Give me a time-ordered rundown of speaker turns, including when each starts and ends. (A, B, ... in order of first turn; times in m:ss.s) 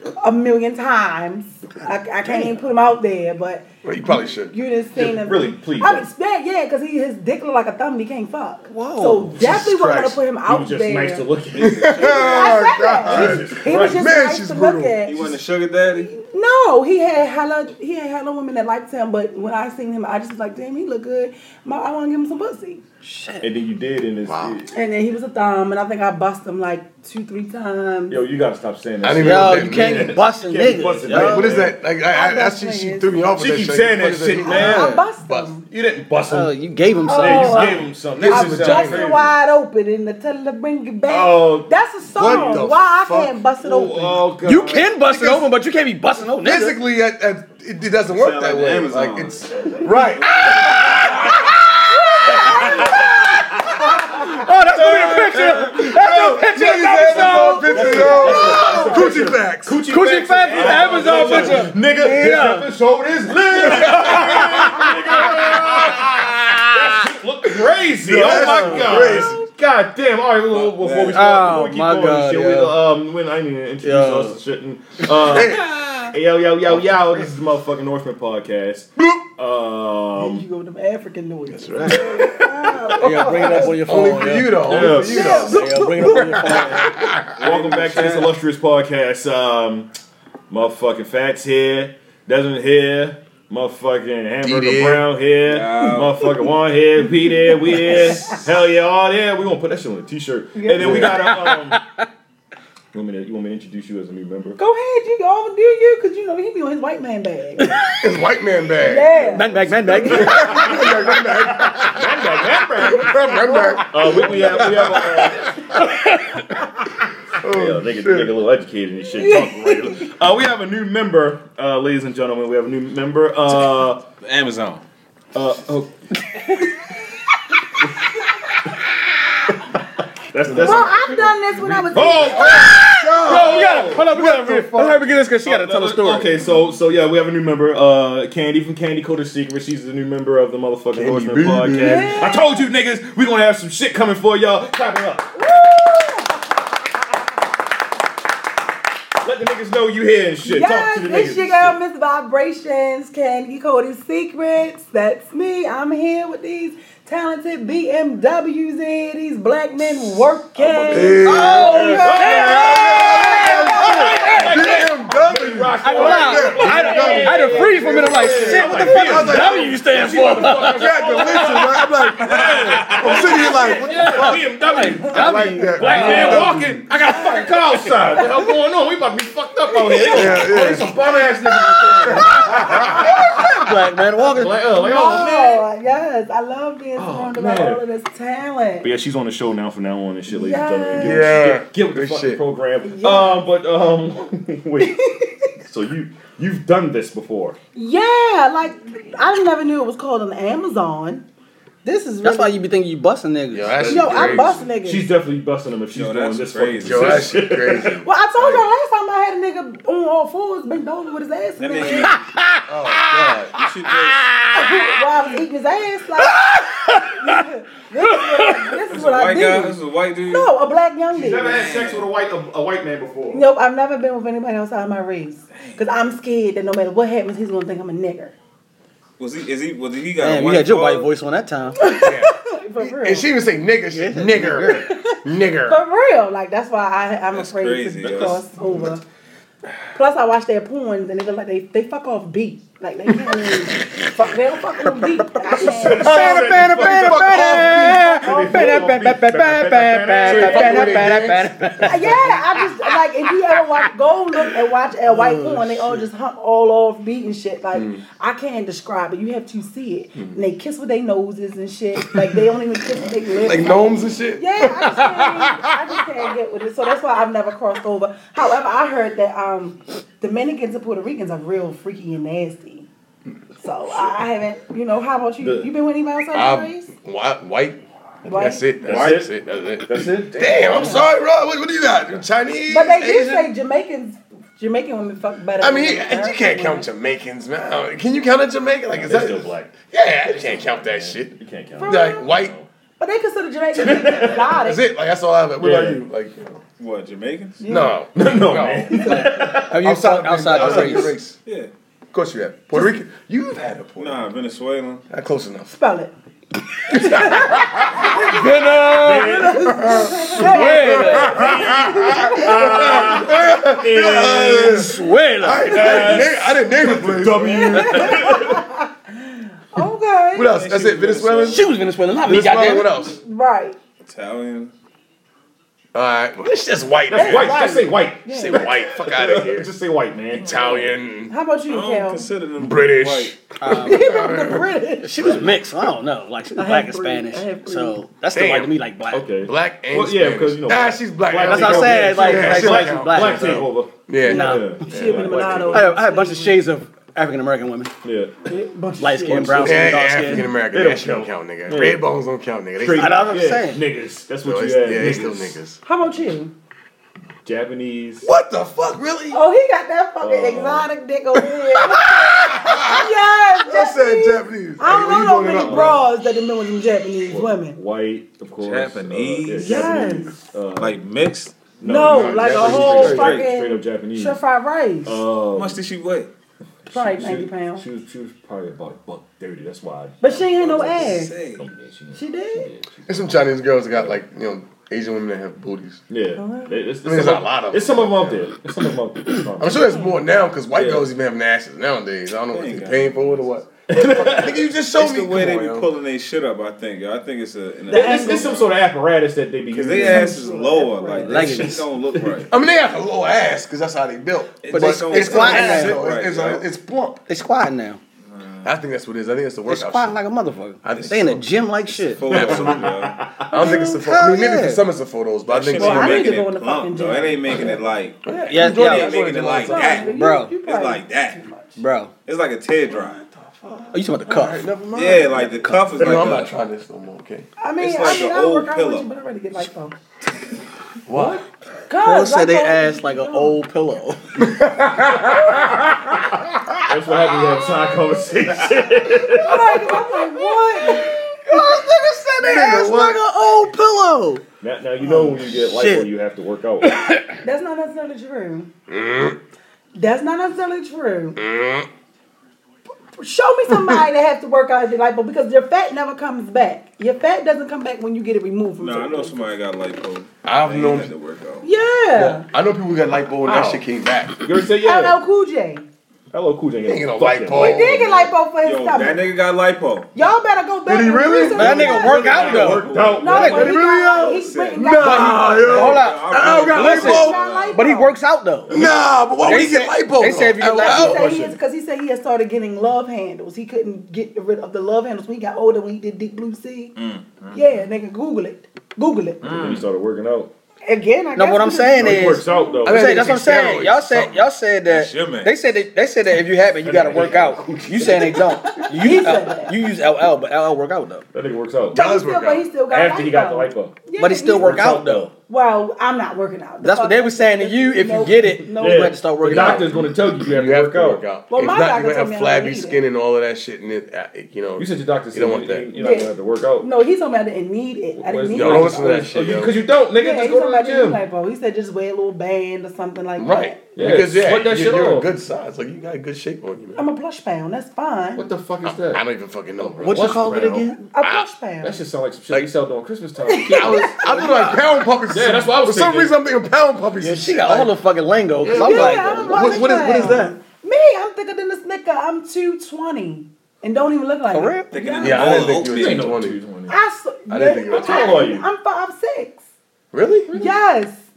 0:00.2-0:03.6 A
0:02.2-0:02.6 B
0:03.8-0:04.5 C
0:04.2-0:11.3 A
0:05.0-0:06.1 D
0:08.7-0:09.3 B
0:09.4-0:10.2 C
0:10.4-0:11.9 D
0:11.5-0:12.7 E
0:11.6-0:15.0 C
0:12.0-0:15.4 A
0:13.0-0:14.1 D
0:15.0-0:16.1 E
0:16.0-0:22.9 A
0:23.0-0:23.4 B
0:23.4-0:24.7 D
0:24.2-0:24.6 C
0:24.7-0:28.2 A
0:28.1-0:31.8 D
0:29.0-0:30.2 C
0:29.2-0:31.6 B
0:31.1-0:35.6 C
0:32.0-0:33.2 A
0:33.4-0:35.0 D
0:34.4-0:35.6 A
0:34.5-0:35.0 B
0:35.7-0:36.5 D
0:36.3-0:37.7 B
0:37.0-0:44.3 A
0:37.1-0:39.1 D
0:38.2-0:39.3 C
0:41.1-0:42.7 D
0:42.1-0:43.3 C
0:43.6-0:45.0 D
0:44.4-0:46.8 B
0:44.8-0:45.5 C
0:46.2-0:51.6 C
0:48.1-0:51.4 E
0:51.2-0:53.2 A
0:52.2-0:53.3 B
0:54.0-0:59.0 B
0:54.1-0:59.8 C
0:57.0-1:06.2 D
0:57.8-0:59.1 A
0:59.9-1:02.7 B
1:01.0-1:01.6 C
1:03.5-1:06.6 C
1:03.6-1:05.5 B
1:06.7-1:20.4 D
1:08.0-1:09.4 C
1:08.2-1:09.1 B
1:10.5-1:11.3 E
1:11.1-1:12.8 B
1:13.8-1:14.4 B
1:15.0-1:15.9 C
1:16.6-1:17.3 C
1:19.0-1:19.2 C
1:20.2-1:23.8 A
1:21.5-1:27.2 C
1:22.9-1:27.0 B
1:24.6-1:25.3 D
1:24.8-1:26.5 A
1:26.5-1:29.9 D
1:27.4-1:28.3 E
1:30.5-1:41.8 D
1:34.4-1:35.1 C
1:35.4-1:36.3 E
1:37.3-1:38.4 A
1:40.5-1:41.1 A
1:40.8-1:41.8 B
1:42.9-1:44.6 D
1:44.6-1:47.7 A
1:47.6-1:48.0 B
1:47.9-1:55.3 C
1:48.8-1:50.9 A
1:49.2-1:50.9 B
1:50.0-1:50.7 D
1:51.7-1:53.2 D
1:52.8-1:54.6 A
1:53.8-1:55.5 D
1:55.8-1:56.2 B
1:57.4-1:58.3 C
1:57.4-2:04.0 D
1:59.2-2:00.0 A
2:03.5-2:04.8 E
2:05.3-2:05.9 D
2:10.3-2:11.2 D
2:10.4-2:15.0 C
2:10.5-2:12.7 A
2:11.9-2:14.5 D
2:12.6-2:16.4 B
2:15.4-2:25.3 D
2:20.9-2:22.2 C
2:21.7-2:22.6 A
2:25.3-2:26.4 A
2:29.2-2:31.8 D
2:30.4-2:44.5 A
2:40.6-3:03.4 D
2:40.6-2:54.3 C
2:41.2-2:44.8 B
2:45.8-2:51.8 B
2:53.1-2:58.1 B
2:55.4-2:56.8 C
2:59.9-3:00.2 B
3:00.1-3:00.9 C
3:02.2-3:02.4 A
3:02.2-3:04.6 B
3:04.2-3:05.6 D
3:04.7-3:08.9 A
3:07.0-3:07.8 D
3:08.8-3:15.0 D
3:10.3-3:11.2 A
3:11.0-3:12.4 C
3:12.8-3:13.4 A
3:14.8-3:15.5 A
3:15.6-3:17.6 D
3:17.7-3:21.2 A
3:21.8-3:22.6 A
3:22.2-3:23.8 B
3:23.5-3:24.6 C
3:23.8-3:28.0 D
3:23.9-3:25.1 A
3:25.9-3:27.4 E
3:26.8-3:28.7 C
3:28.0-3:32.1 A
3:31.6-3:32.2 E
3:31.8-3:35.0 B
3:32.7-3:33.5 C
3:33.5-3:34.3 E
3:34.5-3:36.4 A
3:36.2-3:37.4 B
3:37.0-3:39.8 A
3:38.0-3:38.7 B
3:38.9-3:40.5 E
3:40.3-3:41.7 A
3:41.1-3:43.4 D
3:41.5-3:42.0 E
3:43.3-3:48.3 A
3:49.2-3:51.1 E
3:50.2-3:51.9 B
3:51.8-3:53.3 A
3:52.0-3:55.8 C
3:53.9-3:54.9 B
3:54.8-3:59.0 A
3:57.3-3:58.4 E
3:58.0-3:58.4 D
3:59.9-4:06.5 A
4:03.2-4:03.6 B
4:04.8-4:12.3 B
4:05.6-4:11.5 D
4:06.5-4:08.2 C
4:07.8-4:08.9 A
4:10.2-4:12.0 C
4:11.8-4:32.9 A
4:12.3-4:12.7 D
4:15.0-4:16.0 B
4:17.7-4:18.0 C
4:23.4-4:25.7 C
4:33.6-4:36.9 A
4:35.4-4:35.7 D
4:36.3-4:43.5 C
4:38.2-4:38.6 A
4:38.8-4:41.1 D
4:38.9-4:39.2 E
4:40.7-4:41.0 A
4:42.7-4:46.9 A
4:45.6-4:52.6 C
4:48.9-4:49.7 D
4:50.4-4:52.7 D
4:51.8-4:52.3 A
4:53.0-4:54.8 A
4:53.8-4:54.6 D
4:54.5-4:56.6 C
4:55.6-4:56.0 D
4:56.8-4:57.6 E
4:57.6-4:58.0 A
4:57.7-5:01.4 C
4:58.1-4:59.8 D
4:59.1-5:01.1 B
5:00.5-5:01.1 D
5:01.4-5:01.7 E
5:02.1-5:04.3 C
5:04.0-5:05.0 E
5:05.1-5:05.7 C
5:05.7-5:06.1 A
5:06.8-5:13.2 A
5:06.9-5:08.2 C
5:08.2-5:09.4 B
5:09.0-5:09.8 D
5:09.4-5:18.1 C
5:10.4-5:11.5 B
5:11.1-5:14.9 D
5:14.6-5:16.3 B
5:15.6-5:18.6 D
5:17.4-5:20.5 A
5:20.3-5:21.6 C
5:20.4-5:21.6 E
5:21.5-5:22.9 B
5:22.2-5:23.2 C
5:23.2-5:23.8 A
5:24.0-5:24.7 E
5:25.9-5:29.7 C
5:27.1-5:30.9 D
5:27.1-5:28.7 A
5:30.3-5:31.3 C
5:31.3-5:32.3 A
5:31.7-5:33.4 E
5:32.6-5:34.8 C
5:33.6-5:34.2 B
5:33.7-5:35.5 A
5:35.0-5:39.3 B
5:35.2-5:35.6 D
5:36.5-5:38.0 A
5:38.3-5:38.8 C
5:39.1-5:45.9 D
5:39.4-5:45.7 C
5:41.4-5:43.7 B
5:44.2-5:44.7 B
5:44.2-5:46.6 A
5:45.7-5:47.9 B
5:48.0-5:48.4 D
5:48.4-5:49.8 A
5:49.0-5:50.5 B
5:49.3-5:52.0 D
5:49.6-5:53.3 C
5:52.8-5:55.5 D
5:52.9-5:53.8 B
5:54.4-5:55.8 C
5:55.8-5:56.5 A
5:57.4-5:58.3 D
5:58.2-5:59.4 C
5:59.3-6:07.8 A
6:00.2-6:00.9 D
6:01.9-6:03.1 C
6:03.6-6:06.0 C
6:05.5-6:06.0 D
6:07.3-6:11.0 D
6:08.6-6:09.9 E
6:09.6-6:10.3 A
6:10.8-6:11.6 E
6:11.8-6:14.4 D
6:11.8-6:15.2 A
6:12.1-6:13.5 E
6:15.0-6:15.8 D
6:15.5-6:16.3 E
6:16.8-6:23.3 D
6:16.9-6:17.9 A
6:20.2-6:21.4 A
6:20.6-6:21.6 E
6:22.1-6:22.7 A
6:23.1-6:26.0 C
6:26.1-6:30.0 D
6:26.4-6:26.8 A
6:27.0-6:28.5 C
6:29.6-6:35.9 C
6:29.8-6:30.1 A
6:30.7-6:31.1 D
6:32.5-6:33.4 E
6:33.9-6:34.6 D
6:34.9-6:38.7 E
6:37.9-6:38.6 A
6:37.9-6:40.4 D
6:39.7-6:42.5 E
6:40.0-6:41.7 A
6:41.3-6:41.8 B
6:41.3-6:42.4 D
6:42.5-6:47.2 C
6:44.6-6:46.6 E
6:44.7-6:46.0 B
6:47.3-6:48.0 B
6:48.2-6:48.7 E
6:48.6-6:50.2 C
6:49.7-6:52.8 B
6:50.8-6:51.4 C
6:51.9-6:53.2 E
6:52.2-6:52.9 C
6:52.3-6:53.8 D
6:53.4-6:56.4 C
6:53.5-6:54.8 B
6:55.5-7:01.4 E
6:55.8-6:57.8 A
6:57.5-7:00.1 C
6:58.5-6:59.2 B
6:59.6-7:01.8 A
6:59.9-7:00.5 B
7:01.8-7:02.1 B
7:02.2-7:03.2 E
7:02.9-7:07.5 C
7:03.9-7:04.7 B
7:04.9-7:06.5 E
7:07.6-7:10.0 A
7:07.8-7:09.1 E
7:11.1-7:11.4 C
7:11.9-7:13.6 A
7:12.0-7:14.4 B
7:14.5-7:15.5 C
7:15.6-7:16.0 D
7:16.9-7:19.8 D
7:19.3-7:21.1 A
7:19.8-7:24.4 B
7:22.4-7:23.2 C
7:24.6-7:27.0 D
7:25.0-7:26.1 B
7:27.4-7:28.7 A
7:28.9-7:29.4 C
7:30.0-7:31.4 A
7:31.4-7:31.9 C
7:33.2-7:39.5 A
7:38.8-7:41.6 E
7:40.4-7:41.1 C
7:41.6-7:42.4 A
7:42.1-7:44.4 C
7:43.4-7:43.8 D
7:44.4-7:45.2 D
7:44.8-7:45.9 A
7:46.3-7:48.0 D
7:46.8-7:48.2 C
7:47.5-7:49.3 A
7:48.6-7:50.1 E
7:50.1-7:55.9 A
7:50.8-7:57.4 C
7:51.5-7:53.8 B
7:51.6-7:53.8 D
7:54.2-7:57.8 E
7:55.0-7:58.8 B
7:56.7-7:58.2 A
7:58.7-7:59.5 D
7:58.7-8:01.4 C
7:59.4-8:01.2 B
8:00.8-8:06.9 A
8:01.0-8:01.6 D
8:07.0-8:07.6 E
8:07.5-8:09.4 A
8:09.4-8:09.9 E
8:09.4-8:10.5 D
8:10.9-8:12.9 A
8:11.3-8:21.2 B
8:11.9-8:13.3 D
8:12.8-8:14.4 C
8:14.8-8:15.5 E
8:16.8-8:18.9 D
8:18.8-8:19.8 A
8:21.3-8:22.0 D
8:21.9-8:22.7 C
8:21.9-8:24.9 A
8:22.9-8:25.3 D
8:24.1-8:25.3 B
8:25.5-8:29.8 A
8:26.8-8:30.0 B
8:28.7-8:31.2 D
8:29.5-8:35.9 C
8:31.5-8:33.0 A
8:34.8-8:36.9 D
8:35.9-8:39.3 A
8:38.2-8:41.2 D
8:38.5-8:39.8 C
8:40.1-8:43.8 A
8:43.4-8:47.0 C
8:43.9-8:45.3 D
8:47.0-8:48.4 A
8:48.4-8:49.2 D
8:48.8-8:50.6 C
8:49.8-8:50.9 D
8:50.0-8:51.0 B
8:51.0-8:52.0 A
8:51.2-8:51.5 C
8:51.8-8:54.2 D
8:53.4-8:54.2 A
8:53.6-8:57.9 C
8:54.2-8:54.7 B
8:55.3-8:56.3 D
8:57.2-8:59.9 B
8:58.6-9:00.5 C
8:58.6-8:59.2 D
8:58.7-9:05.6 A
9:04.5-9:04.9 B
9:04.9-9:06.3 E
9:05.2-9:06.6 C
9:05.5-9:07.0 D
9:06.9-9:09.6 A
9:07.5-9:08.5 C
9:07.9-9:08.6 D
9:10.1-9:10.6 C
9:10.5-9:11.2 A